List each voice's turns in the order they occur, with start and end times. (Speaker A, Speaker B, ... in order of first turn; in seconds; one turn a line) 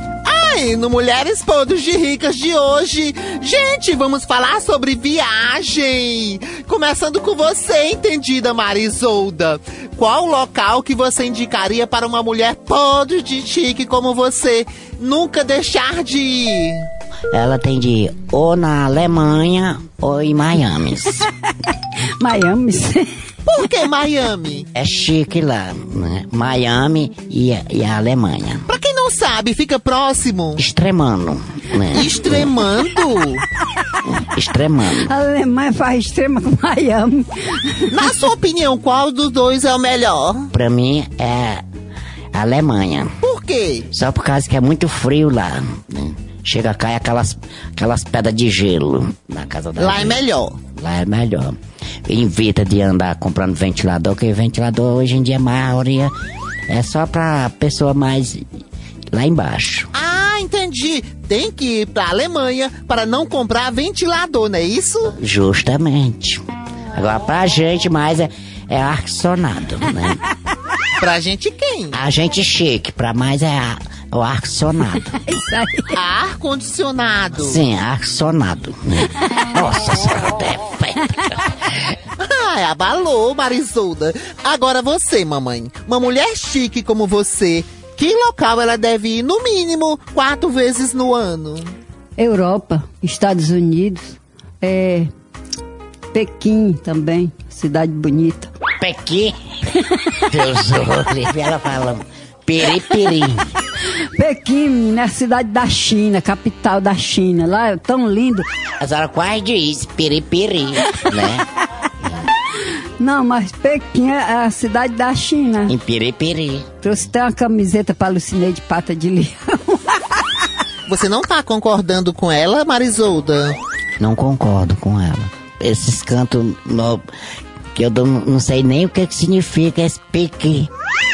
Speaker A: 0.3-16.9
Speaker B: 17.3-21.3
Speaker C: 22.2-23.1
Speaker A: 23.5-24.7
Speaker B: 24.8-28.7
Speaker A: 28.7-30.6
Speaker B: 30.6-32.6
Speaker A: 31.9-33.4
Speaker B: 34.1-35.1
Speaker C: 34.9-38.0
Speaker A: 37.9-40.5
Speaker B: 40.5-41.6
Speaker B: 42.3-43.2
Speaker A: 43.2-43.9
Speaker B: 43.9-56.1
Speaker A: 49.8-50.6
Speaker B: 56.7-58.4
Speaker B: 59.1-59.9
Speaker A: 59.9-65.2
Speaker B: 65.2-66.4
Speaker B: 66.9-70.2
Speaker A: 71.0-72.0
Speaker B: 71.9-75.2
Speaker C: 75.2-76.0
Speaker A: 75.9-77.6
Speaker B: 77.3-82.0
Speaker A: 82.2-91.7
Speaker C: 92.2-95.1
Speaker C: 96.1-98.5
Speaker B: 98.8-99.3
Speaker B: 100.2-103.5
Speaker C: 104.2-108.5
Speaker B: 108.8-111.5
Speaker C: 113.0-115.8
Speaker B: 115.7-116.7
Speaker C: 116.8-120.0
Speaker A: 120.9-123.6
Speaker B: 124.0-127.0
Speaker B: 127.7-130.7